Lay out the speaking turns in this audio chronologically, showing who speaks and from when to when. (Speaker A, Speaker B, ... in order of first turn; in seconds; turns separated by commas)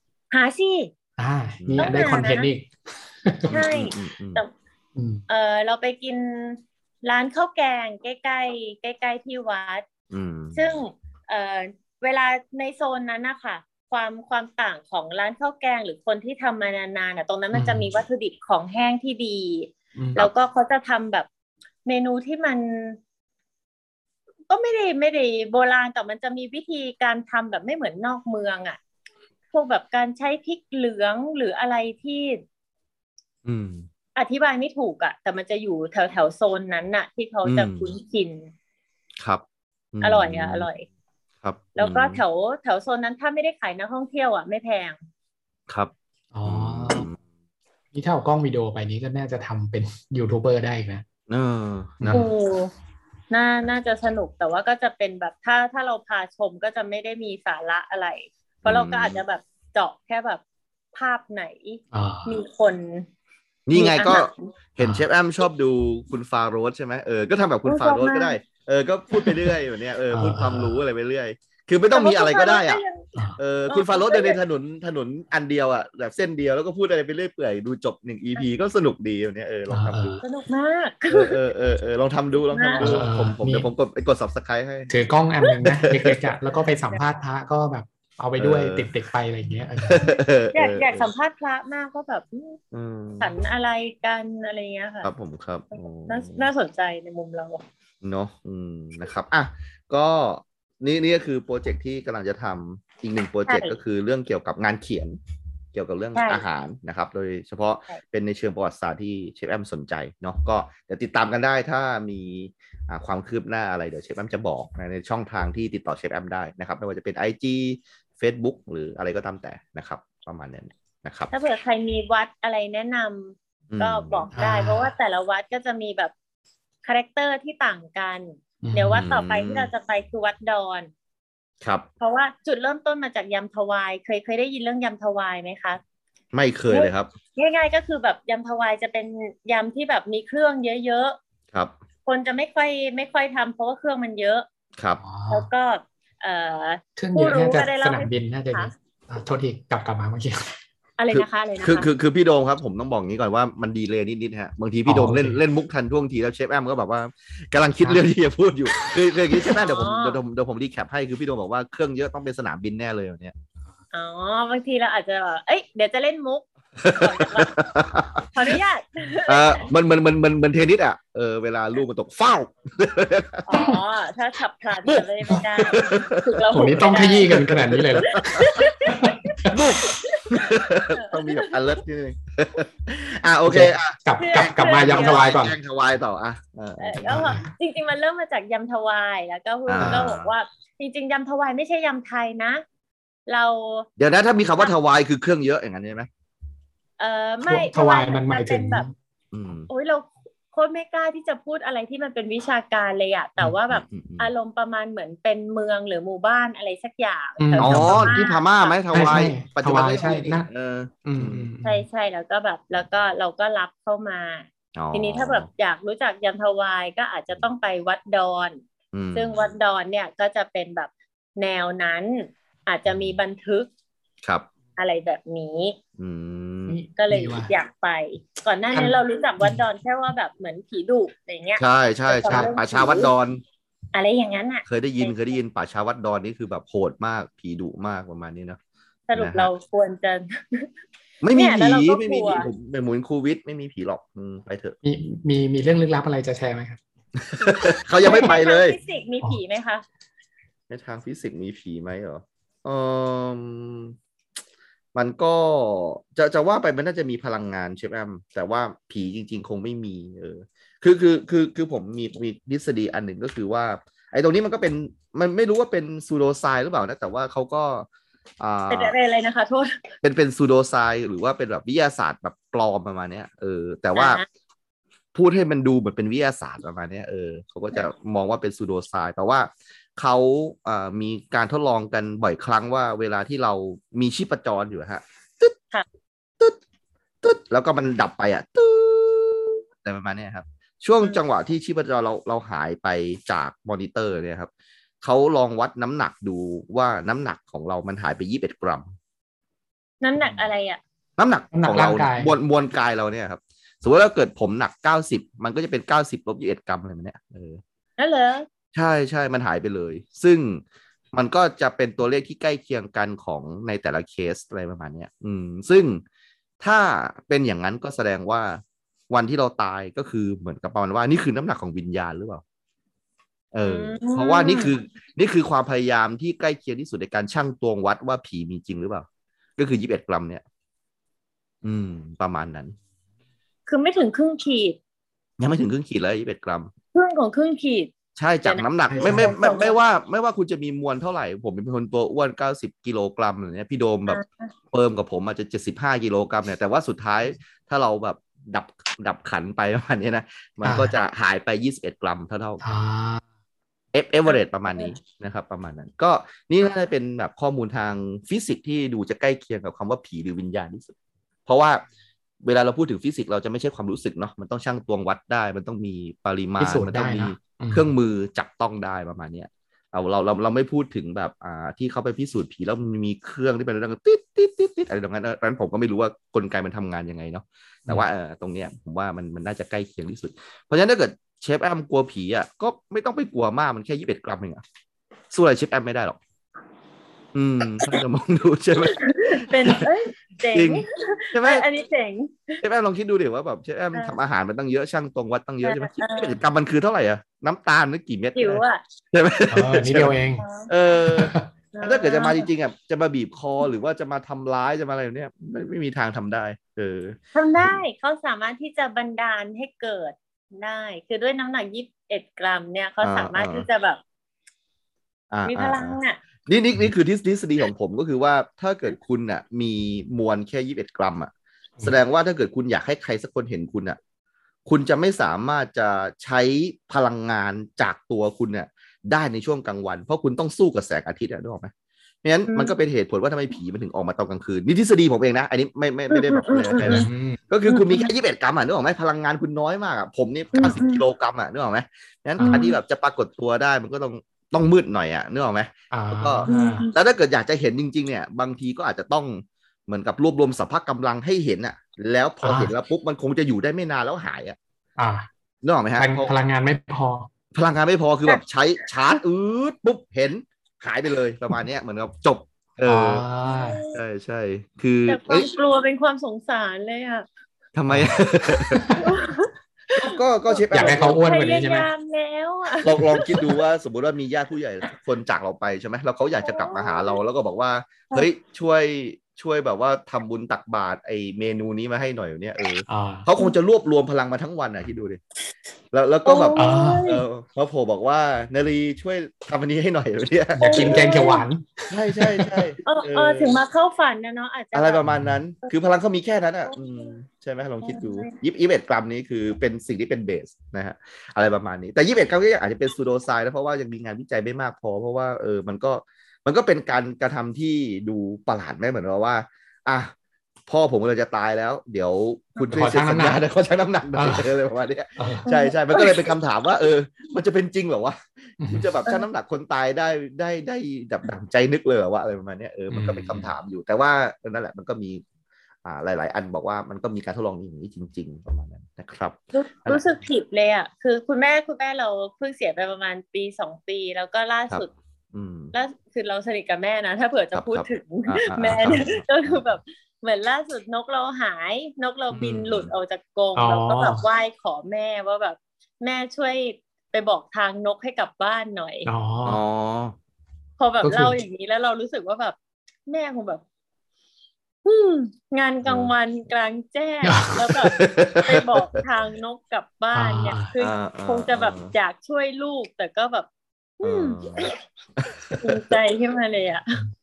Speaker A: 0.3-0.9, Speaker B: 1.2-2.7, Speaker C: 1.6-2.2, Speaker A: 1.8-2.5, Speaker B: 3.2-3.5, Speaker C: 3.5-4.4, Speaker A: 3.5-4.5, Speaker B: 5.0-5.2, Speaker A: 5.3-9.8, Speaker C: 10.1-10.6, Speaker A: 10.5-21.3, Speaker B: 17.5-17.9, Speaker B: 20.0-20.2, Speaker A: 21.8-23.0, Speaker A: 24.5-28.8, Speaker A: 29.5-32.4, Speaker C: 33.4-33.9, Speaker A: 34.1-38.5, Speaker C: 37.4-37.9, Speaker C: 39.2-40.7, Speaker A: 40.0-40.9, Speaker C: 41.4-42.2, Speaker A: 41.8-45.0, Speaker B: 46.3-47.1, Speaker C: 46.4-47.2, Speaker B: 47.9-51.0, Speaker C: 51.3-52.3, Speaker B: 52.0-52.3, Speaker A: 52.1-52.7, Speaker A: 53.3-60.4, Speaker C: 58.6-59.2, Speaker A: 60.9-63.1, Speaker B: 61.9-62.4, Speaker C: 63.7-72.8, Speaker A: 63.7-64.3, Speaker B: 64.8-65.0, Speaker A: 67.6-68.4, Speaker B: 70.1-70.8, Speaker A: 71.9-73.1, Speaker C: 73.4-80.2, Speaker A: 73.7-74.4, Speaker B: 79.7-80.2, Speaker A: 80.2-81.4, Speaker C: 81.1-84.9, Speaker A: 82.5-82.9, Speaker B: 82.8-83.7, Speaker B: 84.9-90.0, Speaker C: 85.7-86.3, Speaker C: 88.4-88.9, Speaker C: 89.8-91.1, Speaker A: 89.9-92.6, Speaker C: 92.7-93.3, Speaker A: 93.2-95.1, Speaker C: 95.0-96.5, Speaker A: 95.7-97.6, Speaker C: 98.0-105.2, Speaker A: 103.5-103.8, Speaker C: 105.7-121.3, Speaker A: 106.1-106.4, Speaker A: 121.3-126.1, Speaker C: 123.7-124.3, Speaker B: 124.3-124.9, Speaker A: 126.8-130.9, Speaker B: 128.6-129.1, Speaker C: 128.9-129.7, Speaker C: 131.6-131.9, Speaker A: 132.0-135.8, Speaker C: 136.3-137.1, Speaker A: 136.7-141.2, Speaker A: 142.1-144.4, Speaker B: 145.0-145.5, Speaker A: 145.3-148.7, Speaker B: 147.0-150.5, Speaker A: 151.0-151.9, Speaker C: 151.1-163.3, Speaker B: 154.8-155.4, Speaker A: 159.6-160.2, Speaker A: 163.9-167.5, Speaker C: 166.8-168.5, Speaker A: 168.3-169.7, Speaker C: 169.3-173.4, Speaker A: 173.4-177.4, Speaker C: 175.6-178.6, Speaker B: 176.5-179.6, Speaker A: 178.2-181.5, Speaker C: 179.5-187.3, Speaker B: 183.4-185.6, Speaker A: 184.2-185.2, Speaker A: 186.8-192.6, Speaker B: 187.0-187.5, Speaker C: 189.7-190.3, Speaker B: 189.8-190.1, Speaker A: 193.3-193.9, Speaker C: 194.0-196.1, Speaker A: 197.0-198.8, Speaker B: 197.4-198.9, Speaker C: 199.3-199.7, Speaker A: 199.7-208.8, Speaker C: 203.7-204.3, Speaker B: 207.4-208.2, Speaker C: 207.6-211.5, Speaker B: 208.9-210.5, Speaker B: 211.0-211.8, Speaker A: 211.6-218.6, Speaker C: 214.8-215.5, Speaker C: 218.9-219.3, Speaker A: 219.1-223.7, Speaker C: 222.8-223.1, Speaker A: 224.8-225.8, Speaker C: 226.0-226.8, Speaker B: 226.7-227.5, Speaker A: 226.9-233.1, Speaker B: 228.7-229.6, Speaker C: 231.6-233.4, Speaker A: 233.9-235.4, Speaker C: 234.7-238.6, Speaker A: 239.1-240.7, Speaker C: 239.2-239.5, Speaker C: 241.2-244.8, Speaker A: 241.3-242.5, Speaker B: 244.8-246.8, Speaker C: 247.2-248.8, Speaker A: 248.0-249.8, Speaker C: 250.7-253.9, Speaker C: 254.9-267.9, Speaker C: 268.4-268.9, Speaker A: 268.7-269.9, Speaker C: 270.0-274.2, Speaker A: 273.9-274.2, Speaker C: 275.1-285.6, Speaker C: 287.2-294.5, Speaker C: 295.0-298.9, Speaker A: 300.0-300.8, Speaker C: 301.2-307.6, Speaker B: 301.5-302.3, Speaker A: 308.0-308.4, Speaker C: 308.7-316.0, Speaker C: 316.6-322.4, Speaker C: 323.5-330.4, Speaker A: 323.6-324.7, Speaker C: 331.6-332.7, Speaker A: 333.7-334.8, Speaker C: 335.4-336.7, Speaker A: 336.9-337.9, Speaker C: 338.1-352.6, Speaker A: 338.4-339.8, Speaker B: 338.9-339.3, Speaker A: 344.1-344.5, Speaker B: 350.6-350.9, Speaker B: 352.6-353.2, Speaker C: 353.9-360.9, Speaker A: 354.3-354.9, Speaker C: 361.4-361.8, Speaker C: 362.4-384.6, Speaker B: 366.6-367.9, Speaker C: 385.3-386.2, Speaker C: 387.3-389.9, Speaker A: 388.9-392.6, Speaker C: 390.5-391.6, Speaker C: 392.6-400.1, Speaker A: 395.6-396.4, Speaker A: 398.3-398.8, Speaker B: 399.5-400.4, Speaker A: 400.4-400.7, Speaker C: 400.7-407.8, Speaker B: 401.1-401.4, Speaker A: 401.7-402.5, Speaker A: 407.3-414.0, Speaker C: 413.0-413.7, Speaker C: 415.3-424.0, Speaker A: 415.4-416.2, Speaker C: 424.6-431.7, Speaker C: 432.2-454.6, Speaker A: 432.5-432.7, Speaker A: 436.1-437.1, Speaker B: 436.8-437.4, Speaker A: 437.7-438.1, Speaker A: 440.5-441.0, Speaker B: 442.4-442.7, Speaker A: 442.4-442.8, Speaker B: 445.9-446.9, Speaker A: 446.5-446.9, Speaker B: 452.4-452.7, Speaker B: 455.0-455.3, Speaker C: 455.6-456.3, Speaker B: 456.0-457.3, Speaker C: 457.5-463.2, Speaker B: 462.8-463.8, Speaker A: 463.4-464.0, Speaker C: 463.9-465.5, Speaker A: 465.1-467.2, Speaker C: 467.7-469.0, Speaker B: 467.9-468.1, Speaker B: 468.7-469.1, Speaker A: 469.0-473.4, Speaker C: 469.9-471.2, Speaker B: 470.7-471.9, Speaker C: 472.8-485.2, Speaker A: 476.4-477.2, Speaker B: 482.9-483.3, Speaker C: 485.9-491.1, Speaker A: 486.2-487.2, Speaker B: 486.6-487.0, Speaker B: 490.5-492.7, Speaker A: 490.6-491.4, Speaker C: 491.9-493.6, Speaker A: 492.8-495.0, Speaker C: 494.7-510.1, Speaker B: 495.0-495.4, Speaker A: 496.7-497.1, Speaker A: 497.8-498.3, Speaker C: 510.7-525.2, Speaker B: 512.7-513.4, Speaker B: 514.1-514.5, Speaker B: 515.2-515.5, Speaker A: 515.5-516.3, Speaker B: 518.6-518.9, Speaker B: 522.9-523.5, Speaker C: 525.8-530.0, Speaker A: 529.5-534.9, Speaker C: 534.7-535.7, Speaker A: 535.7-549.1, Speaker C: 537.5-539.6, Speaker C: 542.3-542.9, Speaker B: 543.5-544.2, Speaker B: 549.0-549.6, Speaker C: 549.4-550.2, Speaker A: 550.8-552.5, Speaker B: 551.0-551.4, Speaker A: 553.1-553.6, Speaker A: 554.8-563.5, Speaker C: 555.8-556.1, Speaker B: 557.2-557.9, Speaker C: 557.8-558.9, Speaker B: 560.1-560.7, Speaker C: 560.8-561.9, Speaker A: 564.0-564.8, Speaker C: 564.0-565.9, Speaker A: 565.6-567.0